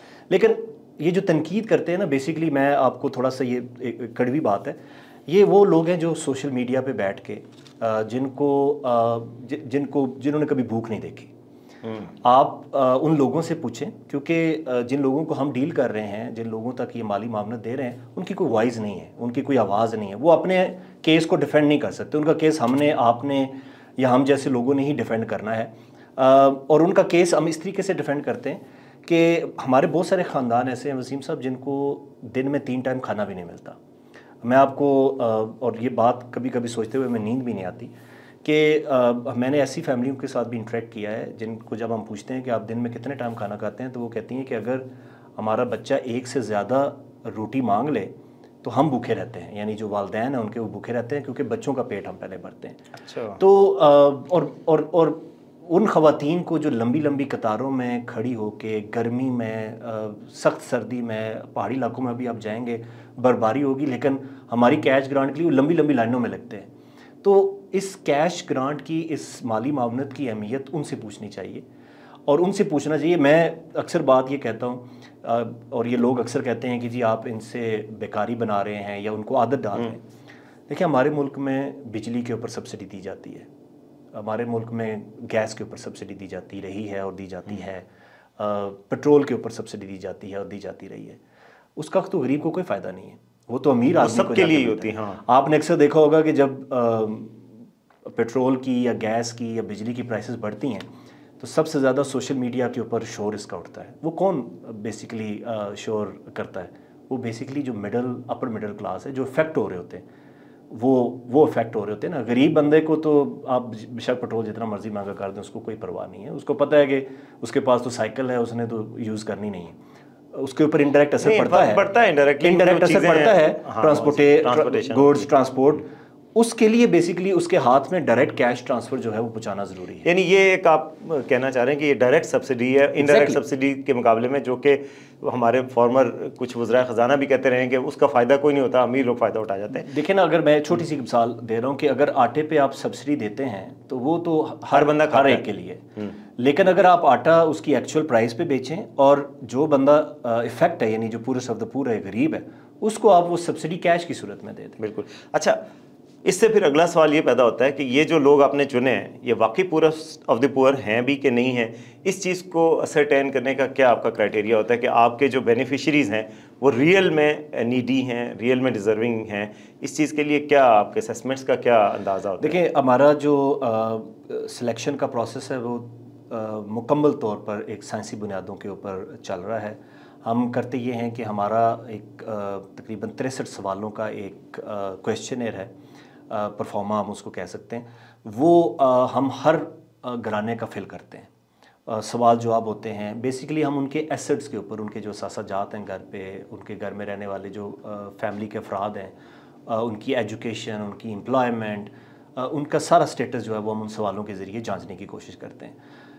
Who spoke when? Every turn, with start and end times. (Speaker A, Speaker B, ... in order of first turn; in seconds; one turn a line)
Speaker A: 0.3-11.3
Speaker A: 12.2-33.8
Speaker A: 34.4-37.9
Speaker A: 38.4-52.8
Speaker B: 53.0-53.4
Speaker A: 53.4-66.7
Speaker A: 67.2-71.7
Speaker A: 72.3-80.0
Speaker A: 80.7-83.5
Speaker A: 84.1-87.9
Speaker A: 88.4-91.2
Speaker A: 91.8-97.5
Speaker B: 94.0-95.2
Speaker A: 98.0-100.9
Speaker A: 101.4-110.0
Speaker A: 110.7-119.8
Speaker A: 120.3-121.8
Speaker B: 121.2-125.2
Speaker A: 122.4-130.1
Speaker B: 130.0-139.9
Speaker A: 133.0-133.4
Speaker A: 139.7-154.8
Speaker B: 144.7-145.4
Speaker B: 154.8-155.6
Speaker B: 156.2-172.6
Speaker A: 172.4-185.7
Speaker A: 186.3-191.3
Speaker A: 191.9-199.2
Speaker A: 199.7-205.8